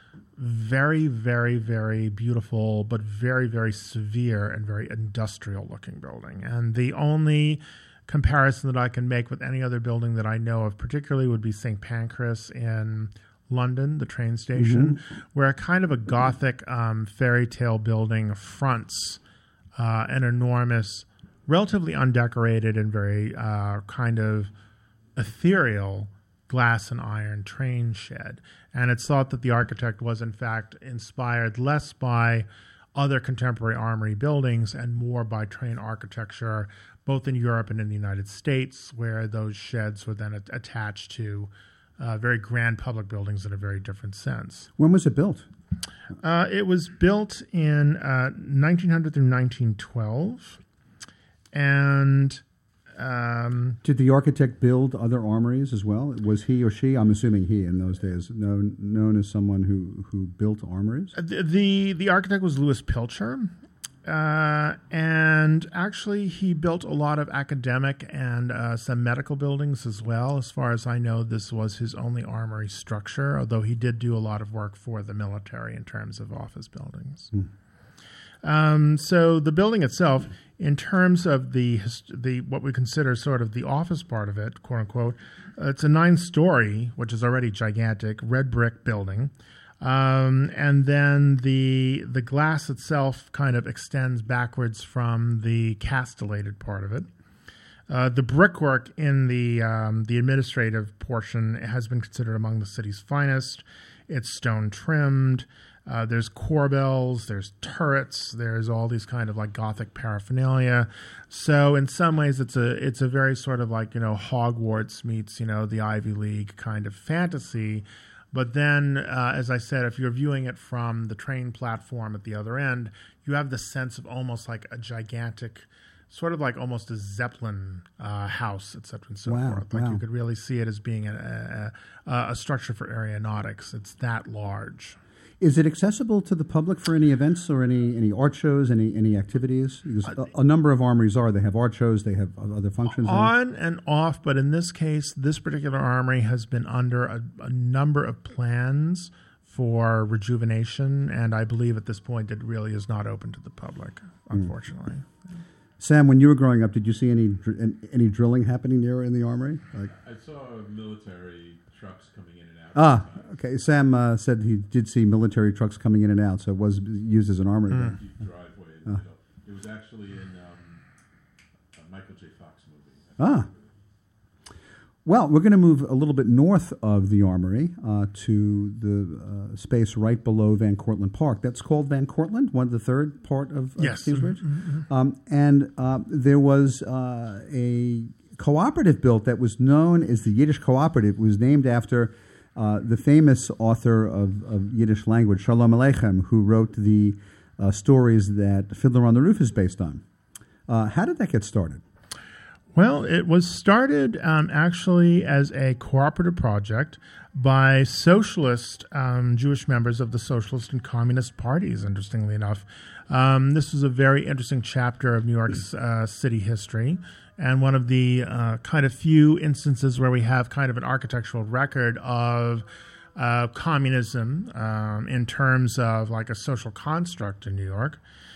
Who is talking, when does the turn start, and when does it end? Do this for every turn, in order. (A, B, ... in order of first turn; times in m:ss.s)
0:00.4-0:19.2 A
0:14.6-0:15.0 B
0:19.8-0:24.5 A
0:25.2-0:44.7 A
0:44.8-0:45.5 B
0:46.2-0:50.6 A
0:51.5-0:52.4 A
0:53.0-0:53.8 A
0:53.8-1:01.1 B
1:01.1-1:03.5 A
1:04.0-1:17.3 A
1:18.4-1:37.1 A
1:37.9-2:15.0 A
2:09.2-2:10.0 B
2:15.4-2:23.3 B
2:22.9-2:35.0 A
2:35.8-2:39.9 B
2:39.9-2:43.3 C
2:42.7-2:48.0 B
2:47.7-2:48.0 A
2:47.8-2:50.8 C
2:51.7-2:53.6 C
2:53.2-2:53.5 B
2:55.0-3:20.0 B
3:03.8-3:04.8 A
3:20.7-3:21.8 B
3:22.7-3:48.0 A